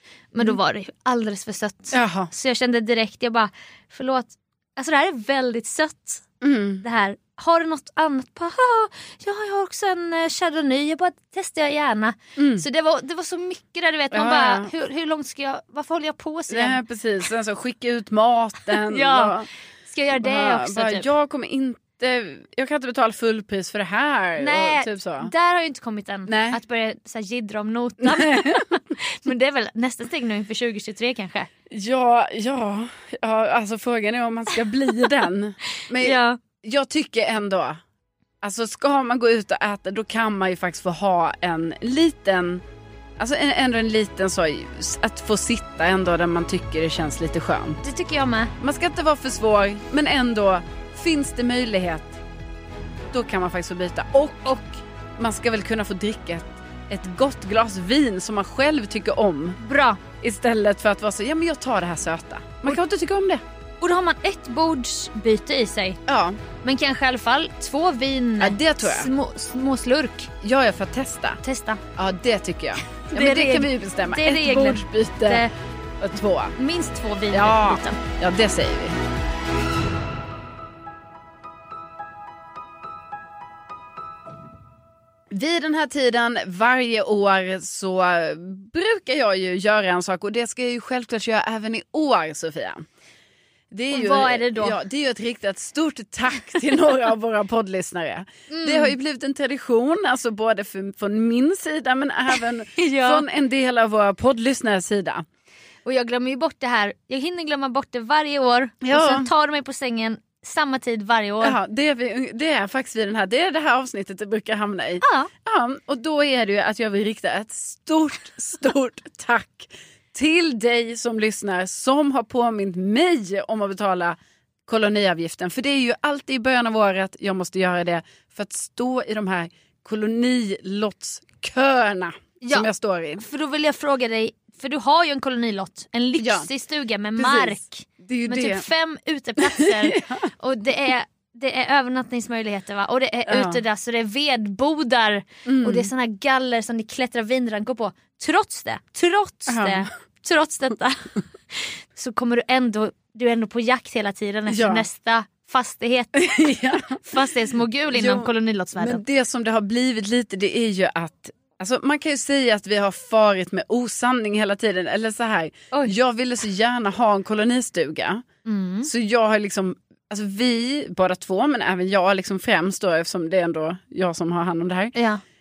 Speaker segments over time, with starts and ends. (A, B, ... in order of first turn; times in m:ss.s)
0:00.3-0:06.3 A
0:01.9-0:02.3 B
0:06.4-0:06.8 B
0:06.8-0:16.8 A
0:12.4-0:12.6 B
0:14.1-0:14.7 B
0:16.5-0:19.5 B
0:18.7-0:21.1 A
0:20.2-0:25.3 B
0:24.4-0:31.5 A
0:26.3-0:26.6 B
0:28.0-0:28.8 B
0:31.7-0:37.8 B
0:35.8-0:36.4 A
0:38.4-0:42.6 B
0:43.2-0:47.8 B
0:47.8-0:48.5 A
0:48.6-0:52.2 B
0:53.1-0:54.5 B
0:55.2-0:59.6 B
0:59.6-1:00.0 A
1:00.2-1:03.4 B
1:03.8-1:06.0 A
1:06.1-1:06.4 B
1:06.6-1:10.3 A
1:08.4-1:09.1 B
1:10.4-1:11.4 B
1:11.4-1:11.8 A
1:12.0-1:15.4 B
1:13.1-1:15.5 A
1:16.0-1:16.6 B
1:16.6-1:18.0 A
1:17.3-1:19.0 B
1:25.3-1:32.8 B
1:33.7-1:45.2 B
1:33.9-1:34.8 A
1:38.5-1:39.0 A
1:42.8-1:43.2 A
1:45.8-1:51.6 A
1:48.8-1:49.3 B
1:51.4-2:13.2 B
1:55.0-1:55.3 A
2:12.4-2:39.0 A
2:16.2-2:16.5 B
2:17.2-2:18.7 B
2:19.4-2:20.3 B
2:23.3-2:23.6 B
2:25.5-2:25.9 B
2:29.5-2:29.9 B
2:34.5-2:34.9 B
2:36.2-2:37.3 B
2:37.9-2:48.2 B
2:48.4-2:48.9 A
2:48.8-2:55.0 B
2:55.0-2:55.2 A